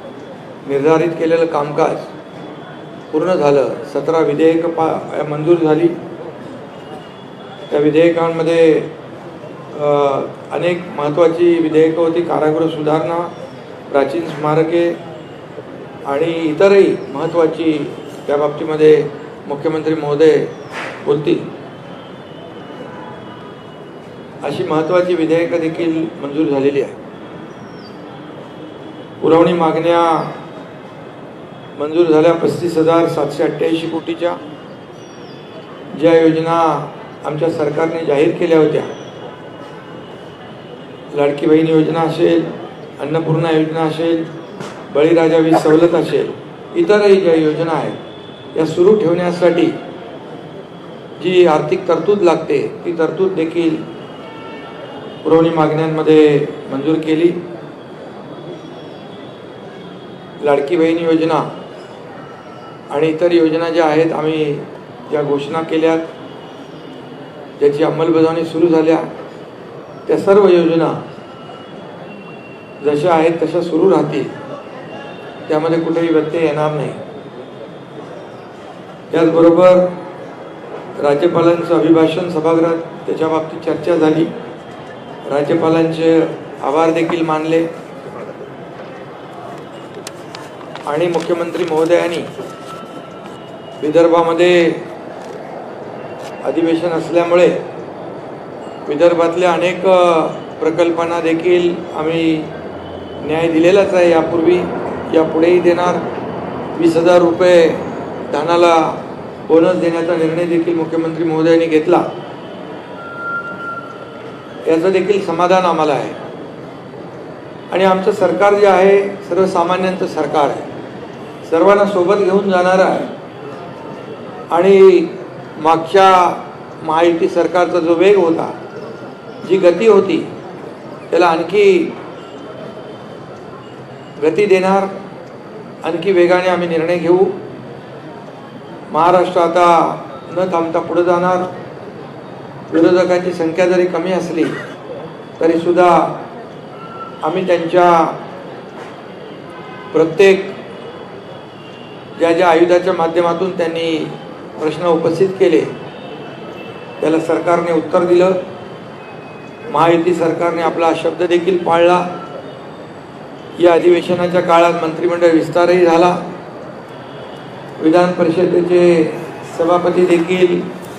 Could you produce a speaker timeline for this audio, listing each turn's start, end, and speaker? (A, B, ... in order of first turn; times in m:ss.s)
0:00.6-0:02.1 A
0:03.1-0:06.0 A
0:07.7-0:08.9 A
0:09.7-0:13.3 A
0:13.9-0:15.0 A
0:16.0-0:21.4 A
0:24.4-0:27.0 A
0:29.2-0:30.4 A
0:31.8-0:34.4 A
0:35.9-0:38.9 A
0:41.1-0:44.3 A
0:44.9-0:48.0 A
0:48.5-0:49.7 A
0:51.2-0:53.8 A
0:55.2-0:57.4 A
1:00.4-1:01.5 A
1:02.9-1:06.1 A
1:07.6-1:09.1 A
1:10.0-1:11.0 A
1:12.8-1:14.3 A
1:15.5-1:17.0 A
1:19.1-1:19.9 A
1:21.0-1:24.3 A
1:25.3-1:27.7 A
1:30.8-1:32.3 A
1:33.8-1:34.8 A
1:36.4-1:37.6 A
1:38.8-1:42.5 A
1:43.2-1:46.0 A
1:46.7-1:52.1 A
1:54.6-1:56.2 A
1:57.7-2:00.6 A
2:01.4-2:03.1 A
2:04.5-2:08.5 A
2:09.4-2:10.3 A
2:11.1-2:12.0 A
2:14.2-2:14.9 A
2:15.8-2:17.3 A
2:18.9-2:21.5 A
2:22.7-2:24.6 A
2:25.4-2:26.2 A
2:27.2-2:28.2 A
2:29.9-2:30.6 A
2:32.2-2:35.7 A
2:37.0-2:38.4 A
2:39.7-2:42.1 A
2:43.6-2:46.2 A
2:47.8-2:50.6 A